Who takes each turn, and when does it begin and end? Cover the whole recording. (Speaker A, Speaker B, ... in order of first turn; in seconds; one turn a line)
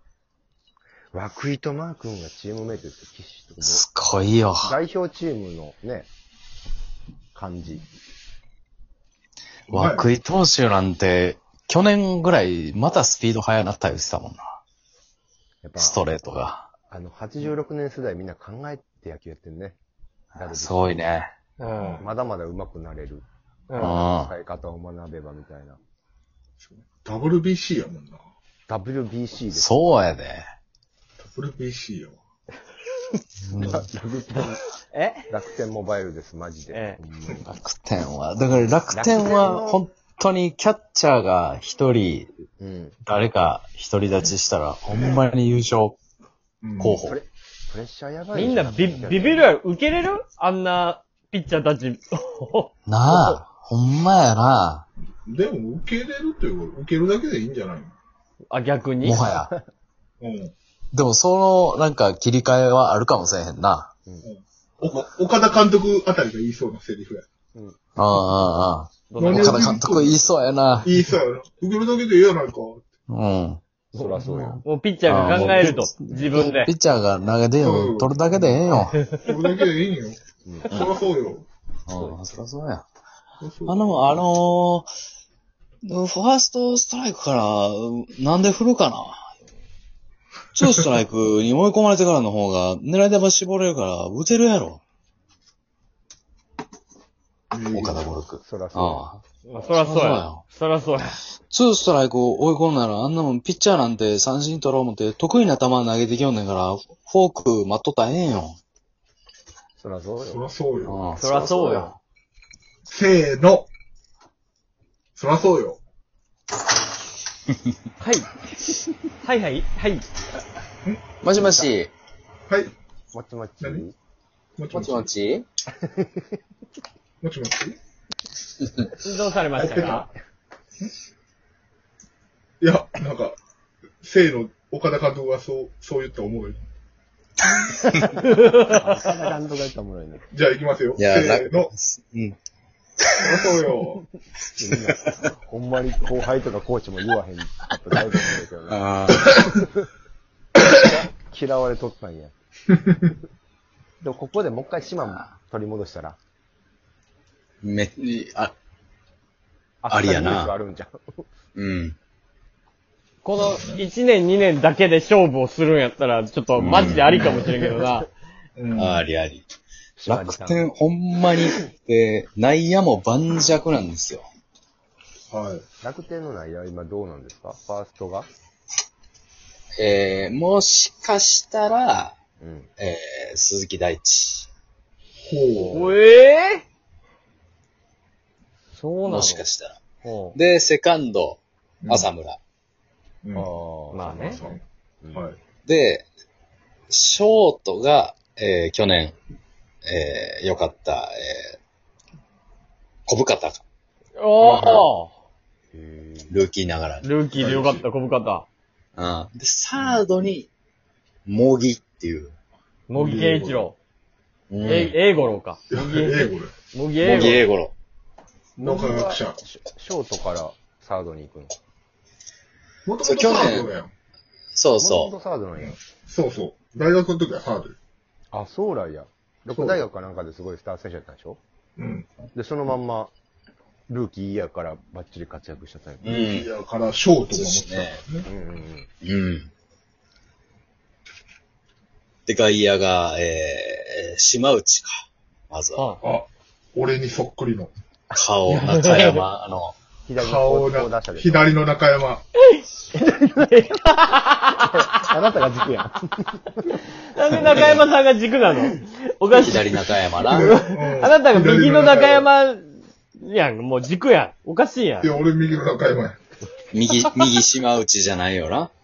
Speaker A: 1.1-3.8
Speaker B: 3.6-4.7
Speaker A: 4.6-6.1
Speaker A: 7.3-7.8
Speaker B: 9.7-14.4
Speaker C: 9.7-10.1
Speaker A: 15.6-16.0
Speaker B: 15.8-16.7
Speaker A: 16.9-19.8
Speaker A: 20.3-21.0
Speaker B: 20.4-21.3
Speaker D: 21.6-22.0
Speaker C: 21.8-22.1
Speaker A: 22.0-25.8
Speaker D: 23.7-23.9
Speaker B: 23.8-24.3
Speaker C: 26.6-28.2
Speaker A: 28.7-29.7
Speaker B: 29.5-30.4
Speaker C: 31.2-32.2
Speaker B: 33.5-33.8
Speaker A: 33.5-34.6
Speaker D: 34.9-35.3
Speaker A: 35.3-37.5
Speaker D: 36.7-37.0
Speaker B: 37.4-42.3
Speaker A: 38.9-39.8
Speaker A: 42.6-43.0
Speaker B: 43.0-46.0
Speaker C: 46.6-47.0
Speaker B: 46.8-47.2
Speaker A: 47.0-49.5
Speaker D: 48.3-53.4
Speaker B: 52.9-54.9
Speaker C: 55.2-58.0
Speaker D: 58.5-59.2
Speaker B: 59.0-59.5
Speaker A: 59.4-59.6
Speaker C: 60.2-60.5
Speaker B: 60.9-63.9
Speaker C: 64.2-67.2
Speaker A: 67.5-67.8
Speaker B: 68.0-70.9
Speaker D: 69.1-69.7
Speaker C: 69.2-70.3
Speaker C: 70.8-72.8
Speaker B: 73.1-73.6
Speaker A: 73.9-74.6
Speaker B: 74.2-79.0
Speaker D: 74.6-76.7
Speaker C: 77.6-78.6
Speaker D: 78.9-79.2
Speaker C: 79.1-81.5
Speaker A: 80.4-80.9
Speaker B: 81.9-82.8
Speaker C: 83.4-83.9
Speaker B: 83.7-84.9
Speaker B: 85.8-89.3
Speaker B: 90.5-94.8
Speaker C: 97.5-98.1
Speaker B: 97.7-100.4
Speaker A: 98.4-99.0
Speaker D: 99.5-101.2
Speaker B: 101.5-108.6
Speaker A: 109.8-110.4
Speaker C: 110.2-111.0
Speaker B: 110.8-111.9
Speaker D: 111.2-111.9
Speaker A: 111.2-111.9
Speaker C: 112.9-113.7
Speaker C: 115.2-115.8
Speaker D: 118.0-118.3
Speaker D: 119.2-120.0
Speaker B: 121.2-121.9
Speaker A: 121.3-121.7
Speaker C: 122.5-122.7
Speaker A: 123.1-123.9
Speaker C: 124.6-125.1
Speaker B: 124.7-125.5
Speaker A: 125.8-126.2
Speaker C: 127.2-127.8
Speaker D: 129.0-130.1
Speaker A: 129.6-130.1
Speaker C: 129.6-130.0
Speaker C: 132.6-133.4
Speaker C: 134.0-136.6
Speaker B: 137.8-138.1
Speaker D: 138.2-138.7
Speaker A: 138.6-140.2
Speaker C: 140.3-141.7
Speaker B: 141.0-142.3
Speaker C: 143.2-144.0
Speaker A: 144.5-149.8
Speaker B: 148.7-149.4
Speaker A: 150.6-152.3
Speaker A: 154.0-156.2
Speaker B: 157.6-158.5
Speaker A: 159.8-161.2
Speaker B: 159.9-160.5
Speaker B: 161.5-161.9
Speaker D: 163.2-168.1
Speaker C: 163.3-163.8
Speaker B: 166.5-167.4
Speaker C: 167.1-167.5
Speaker A: 167.2-168.0
Speaker C: 168.6-169.1
Speaker B: 168.7-169.4
Speaker A: 170.0-170.7
Speaker B: 170.1-174.2
Speaker C: 175.3-175.6
Speaker A: 175.8-178.3
Speaker B: 179.8-182.1
Speaker A: 182.4-182.7
Speaker B: 182.8-184.5
Speaker C: 185.2-185.8
Speaker A: 185.6-185.9
Speaker D: 185.7-186.6
Speaker D: 188.7-189.4
Speaker B: 189.0-189.8
Speaker D: 190.0-190.4
Speaker B: 190.3-192.4
Speaker C: 191.8-192.1
Speaker C: 193.2-193.5
Speaker A: 193.3-195.2
Speaker D: 193.9-194.4
Speaker C: 194.2-194.6
Speaker C: 195.1-195.4
Speaker B: 195.6-196.1
Speaker B: 196.9-199.2
Speaker B: 199.8-201.6
Speaker B: 203.1-203.6
Speaker D: 204.2-205.1
Speaker C: 204.4-204.9
Speaker A: 205.7-206.4
Speaker B: 206.3-207.1
Speaker D: 207.0-208.4
Speaker C: 207.3-207.8
Speaker B: 208.9-210.5
Speaker B: 211.2-212.3
Speaker D: 212.9-213.8
Speaker C: 212.9-213.7
Speaker B: 214.5-214.9
Speaker D: 214.6-217.4
Speaker C: 215.7-216.5
Speaker B: 217.0-217.7
Speaker C: 218.6-219.4
Speaker A: 218.6-221.5
Speaker C: 222.8-223.9
Speaker B: 223.0-223.7
Speaker B: 224.5-225.1
Speaker A: 224.8-225.7
Speaker C: 225.6-227.8
Speaker A: 228.3-231.4
Speaker C: 229.5-229.8
Speaker C: 231.8-232.1
Speaker A: 232.3-233.1
Speaker A: 233.9-236.2
Speaker B: 236.0-236.5
Speaker C: 236.1-238.2
Speaker B: 237.3-238.0
Speaker A: 238.2-238.9
Speaker B: 239.0-239.5
Speaker B: 242.3-245.8
Speaker D: 245.8-246.0
Speaker C: 246.0-247.7
Speaker B: 248.1-249.8
Speaker D: 248.5-249.2
Speaker A: 250.1-251.5
Speaker C: 250.2-252.2
Speaker A: 252.9-253.7
Speaker D: 253.4-254.7
Speaker A: 254.6-256.7
Speaker D: 257.0-265.1
Speaker A: 257.3-257.8
Speaker B: 259.3-260.5
Speaker C: 260.2-262.3
Speaker C: 265.0-266.2
Speaker B: 266.7-268.7